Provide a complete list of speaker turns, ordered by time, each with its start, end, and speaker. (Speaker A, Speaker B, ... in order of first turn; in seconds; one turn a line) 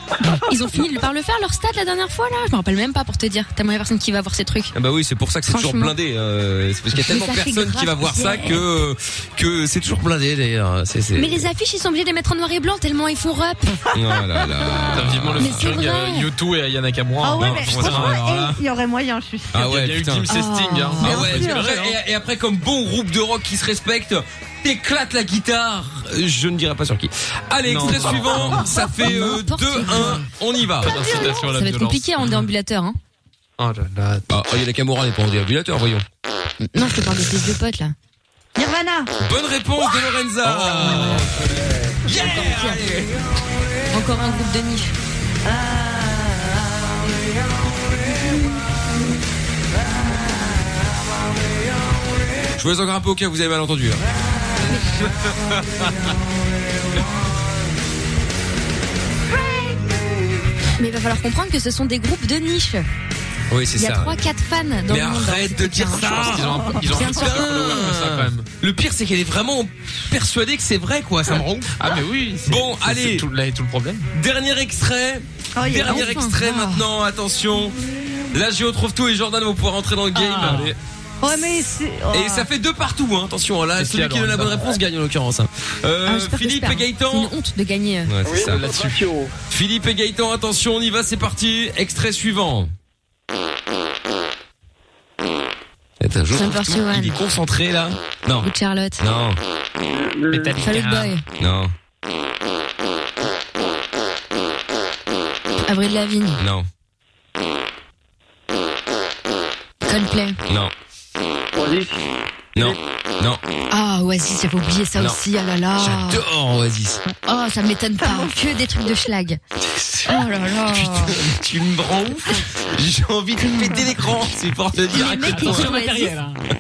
Speaker A: 0.2-4.7
Speaker B: 4.7-11.5
Speaker A: 5.5-5.9
Speaker A: 7.0-8.6
Speaker A: 11.2-13.8
Speaker B: 13.9-15.7
Speaker C: 14.9-18.2
Speaker A: 15.4-16.3
Speaker D: 17.2-19.7
Speaker B: 17.4-18.6
Speaker B: 19.5-20.3
Speaker C: 19.6-21.9
Speaker A: 20.3-21.2
Speaker B: 21.0-31.1
Speaker D: 21.0-21.8
Speaker C: 27.6-28.7
Speaker A: 28.7-30.2
Speaker C: 30.8-32.4
Speaker D: 30.9-31.5
Speaker A: 31.4-33.0
Speaker C: 33.6-34.2
Speaker B: 34.3-36.0
Speaker A: 36.6-37.9
Speaker D: 38.5-39.1
Speaker B: 39.2-41.5
Speaker C: 40.5-41.3
Speaker B: 42.0-43.2
Speaker A: 42.1-42.8
Speaker A: 43.9-44.9
Speaker D: 45.5-46.3
Speaker B: 52.6-54.0
Speaker D: 59.3-59.9
Speaker A: 60.8-62.8
Speaker B: 63.5-64.1
Speaker A: 63.8-66.7
Speaker B: 64.9-71.9
Speaker C: 66.0-68.5
Speaker D: 66.6-67.2
Speaker C: 71.8-74.1
Speaker B: 72.4-73.3
Speaker B: 74.1-77.8
Speaker D: 75.5-76.1
Speaker A: 75.8-76.8
Speaker B: 78.3-80.8
Speaker E: 80.1-80.7
Speaker D: 81.2-82.5
Speaker B: 82.1-87.3
Speaker C: 83.8-84.7
Speaker A: 86.0-88.1
Speaker B: 88.0-88.7
Speaker F: 88.2-89.3
Speaker C: 88.4-89.0
Speaker B: 89.5-92.7
Speaker B: 96.0-99.4
Speaker A: 96.3-97.2
Speaker A: 98.4-99.0
Speaker F: 99.9-100.6
Speaker C: 100.3-101.1
Speaker A: 100.6-101.2
Speaker B: 101.4-101.7
Speaker A: 105.6-106.4
Speaker B: 106.4-106.7
Speaker A: 109.8-110.4
Speaker B: 110.5-110.7
Speaker F: 111.5-112.0
Speaker B: 112.5-113.4
Speaker A: 113.7-116.2
Speaker B: 115.8-117.0
Speaker A: 117.2-119.4
Speaker D: 118.0-118.3
Speaker A: 120.0-121.2
Speaker B: 120.7-125.7
Speaker A: 124.9-126.1
Speaker E: 125.0-126.4